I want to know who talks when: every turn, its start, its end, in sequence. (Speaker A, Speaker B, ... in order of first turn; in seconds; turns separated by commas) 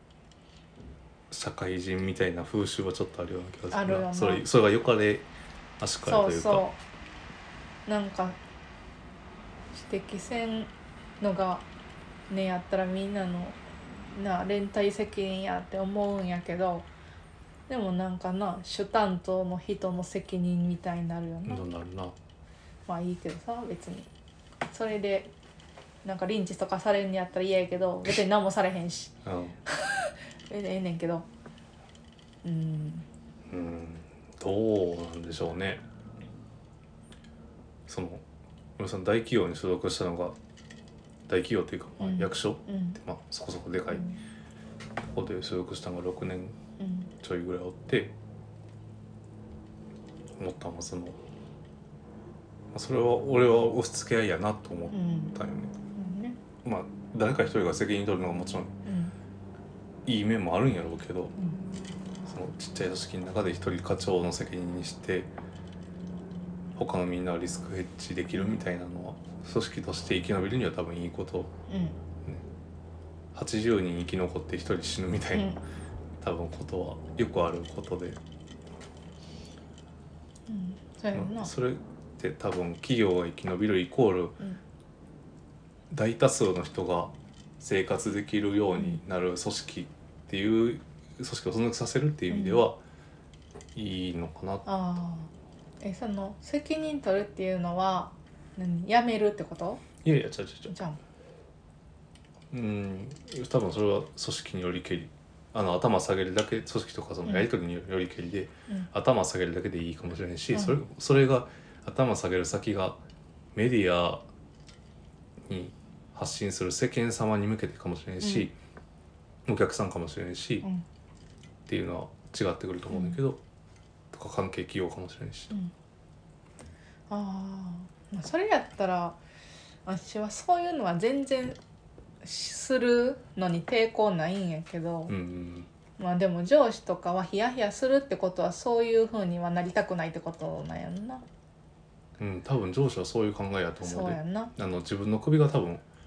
Speaker A: 1.3-5.3, Speaker B: 3.7-4.4, Speaker A: 5.8-6.7, Speaker B: 6.0-6.8, Speaker B: 7.9-8.4, Speaker B: 9.7-11.7, Speaker B: 12.3-16.9, Speaker B: 17.7-21.6, Speaker A: 21.5-22.1, Speaker B: 22.9-24.1, Speaker B: 24.7-25.3, Speaker B: 26.0-29.1, Speaker A: 29.2-29.6, Speaker B: 29.7-31.3, Speaker B: 32.4-33.0, Speaker A: 33.5-35.8, Speaker A: 37.9-38.2, Speaker A: 38.8-40.4, Speaker A: 41.3-44.1, Speaker B: 42.0-43.0, Speaker B: 43.9-44.2, Speaker A: 45.1-46.6, Speaker B: 46.8-47.1, Speaker A: 47.2-48.1, Speaker A: 50.4-51.2, Speaker A: 52.7-55.8, Speaker B: 54.9-55.3, Speaker B: 56.0-56.4, Speaker A: 56.6-58.7, Speaker B: 58.9-59.1, Speaker A: 60.1-61.4, Speaker A: 62.3-65.3, Speaker A: 66.8-71.5, Speaker B: 71.7-72.0, Speaker A: 73.3-75.5, Speaker B: 75.3-75.6, Speaker A: 76.2-78.2, Speaker B: 80.5-81.5, Speaker A: 81.1-84.4, Speaker A: 85.9-92.8, Speaker B: 92.3-92.7, Speaker A: 93.8-94.7, Speaker B: 94.7-95.3, Speaker B: 95.8-99.9, Speaker A: 100.0-100.7, Speaker B: 100.7-101.0, Speaker A: 102.5-113.0, Speaker B: 110.5-110.8, Speaker A: 113.5-114.3, Speaker A: 115.4-118.5, Speaker B: 118.2-118.5, Speaker A: 119.5-120.7, Speaker A: 121.7-123.4, Speaker B: 122.9-123.2, Speaker A: 124.1-125.5, Speaker B: 127.1-129.2, Speaker B: 129.9-131.6, Speaker B: 132.2-135.1, Speaker A: 135.1-135.7, Speaker B: 136.0-141.2, Speaker A: 142.2-145.8, Speaker B: 143.8-144.5